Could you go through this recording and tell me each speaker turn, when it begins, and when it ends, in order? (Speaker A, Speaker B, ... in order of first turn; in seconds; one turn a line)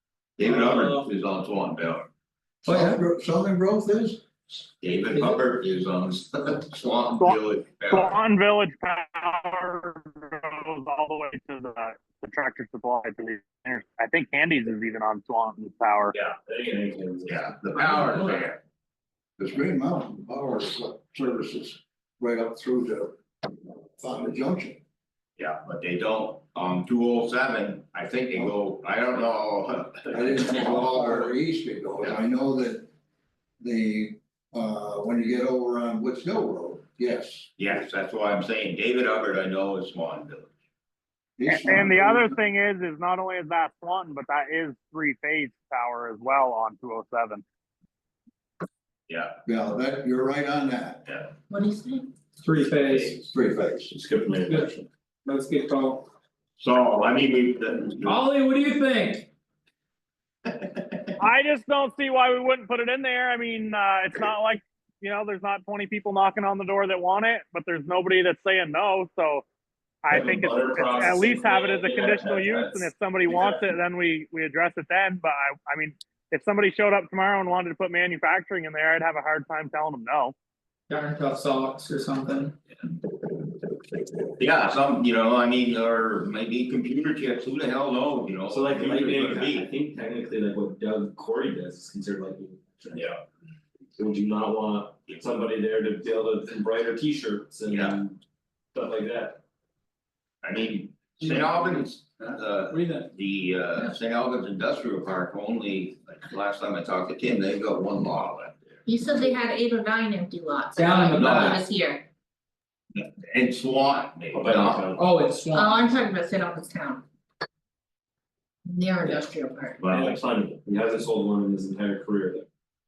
Speaker A: 0.4-2.1
Speaker B: 0.4-1.1
Speaker C: 2.6-4.2
Speaker B: 2.7-3.0
Speaker A: 4.8-8.2
Speaker B: 5.1-5.4
Speaker D: 7.2-16.1
Speaker E: 16.1-18.0
Speaker A: 17.2-18.6
Speaker C: 19.4-23.2
Speaker C: 24.0-24.8
Speaker A: 25.4-31.3
Speaker C: 30.1-32.9
Speaker C: 33.6-37.5
Speaker A: 37.6-40.5
Speaker C: 41.4-42.4
Speaker D: 41.5-47.4
Speaker A: 49.1-49.3
Speaker C: 49.4-51.0
Speaker A: 51.0-51.3
Speaker F: 51.5-52.1
Speaker B: 52.4-53.2
Speaker C: 53.2-53.9
Speaker E: 53.9-54.9
Speaker B: 54.5-54.7
Speaker B: 55.2-56.1
Speaker A: 56.6-58.2
Speaker B: 58.0-59.3
Speaker A: 60.5-61.1
Speaker D: 61.2-69.4
Speaker D: 70.0-80.3
Speaker E: 70.1-73.7
Speaker B: 80.9-82.5
Speaker A: 84.4-89.7
Speaker E: 88.5-93.1
Speaker A: 92.9-93.2
Speaker E: 94.0-98.2
Speaker A: 97.7-98.0
Speaker E: 98.7-99.4
Speaker A: 100.4-108.8
Speaker B: 101.2-101.5
Speaker B: 102.7-103.1
Speaker F: 108.8-112.0
Speaker B: 110.8-111.6
Speaker A: 111.1-111.6
Speaker A: 112.9-114.9
Speaker E: 114.3-115.0
Speaker B: 115.0-115.8
Speaker F: 115.5-117.0
Speaker F: 118.6-119.8
Speaker A: 119.8-120.2
Speaker E: 119.8-122.4